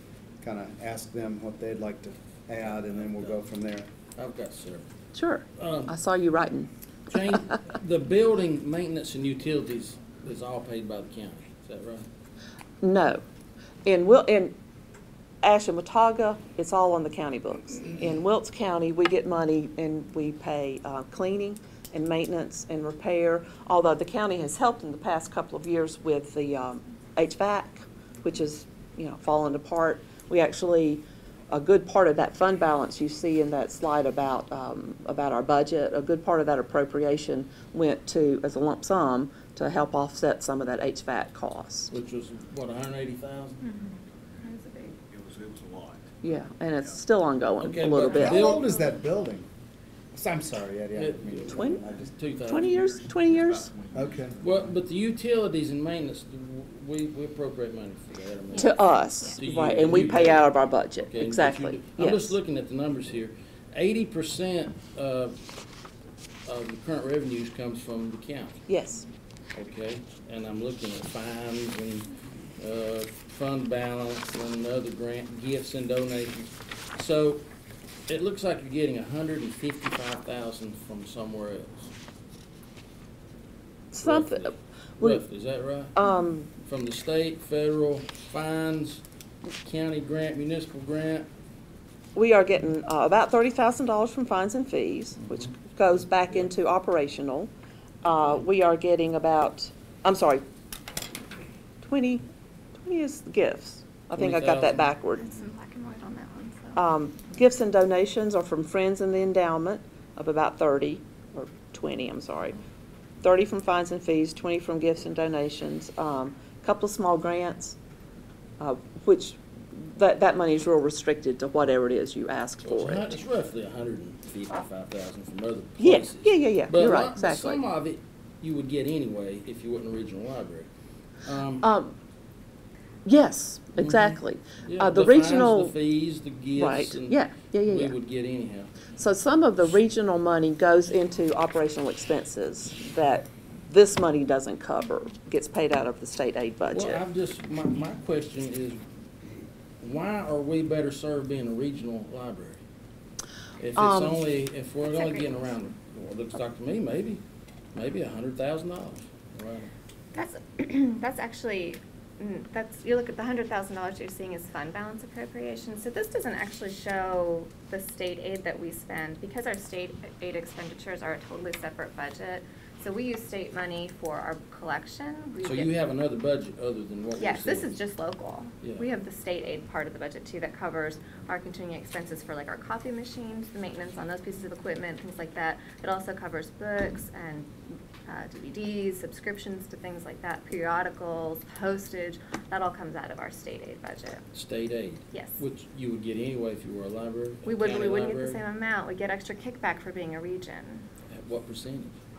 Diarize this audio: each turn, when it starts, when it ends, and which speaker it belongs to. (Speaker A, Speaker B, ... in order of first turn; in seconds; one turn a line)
Speaker A: 0.4-3.9
Speaker B: 2.6-3.3
Speaker B: 4.2-4.9
Speaker C: 5.1-6.7
Speaker B: 5.6-5.9
Speaker B: 7.1-12.0
Speaker C: 12.8-13.2
Speaker C: 13.8-14.5
Speaker C: 15.4-41.9
Speaker B: 41.9-43.6
Speaker D: 43.6-44.9
Speaker E: 45.1-46.0
Speaker C: 46.2-48.5
Speaker B: 47.6-48.7
Speaker A: 48.1-49.5
Speaker D: 48.4-48.8
Speaker A: 50.1-52.1
Speaker B: 51.0-52.7
Speaker C: 51.5-51.9
Speaker C: 52.5-53.7
Speaker E: 52.5-54.8
Speaker A: 53.9-54.4
Speaker B: 54.4-65.3
Speaker D: 58.5-59.4
Speaker C: 58.5-62.4
Speaker B: 66.5-68.6
Speaker C: 68.7-69.0
Speaker B: 69.5-77.4
Speaker B: 78.1-81.9
Speaker C: 83.9-85.2
Speaker B: 84.0-85.9
Speaker C: 85.9-86.5
Speaker B: 86.5-89.0
Speaker B: 89.6-91.3
Speaker C: 92.1-97.5
Speaker C: 98.0-100.4
Speaker C: 101.8-102.2
Speaker C: 102.8-105.3
Speaker B: 104.1-104.9
Speaker D: 105.1-106.8
Speaker C: 106.7-112.6
Speaker C: 113.2-117.8
Speaker C: 118.6-123.1
Speaker B: 122.6-130.7
Speaker C: 125.8-127.6
Speaker B: 131.2-131.7
Speaker C: 131.6-131.9
Speaker C: 133.0-135.8
Speaker B: 133.8-138.7
Speaker C: 136.5-137.9
Speaker C: 138.9-147.0
Speaker B: 146.7-152.6
Speaker B: 153.6-157.2
Speaker C: 153.8-154.2
Speaker D: 154.8-155.6
Speaker B: 157.7-159.7
Speaker D: 160.1-175.7
Speaker B: 175.4-177.7
Speaker D: 177.2-187.5
Speaker B: 178.6-178.9
Speaker D: 188.1-194.2
Speaker B: 194.3-198.4
Speaker D: 195.1-195.4
Speaker D: 197.4-200.9
Speaker B: 201.1-201.9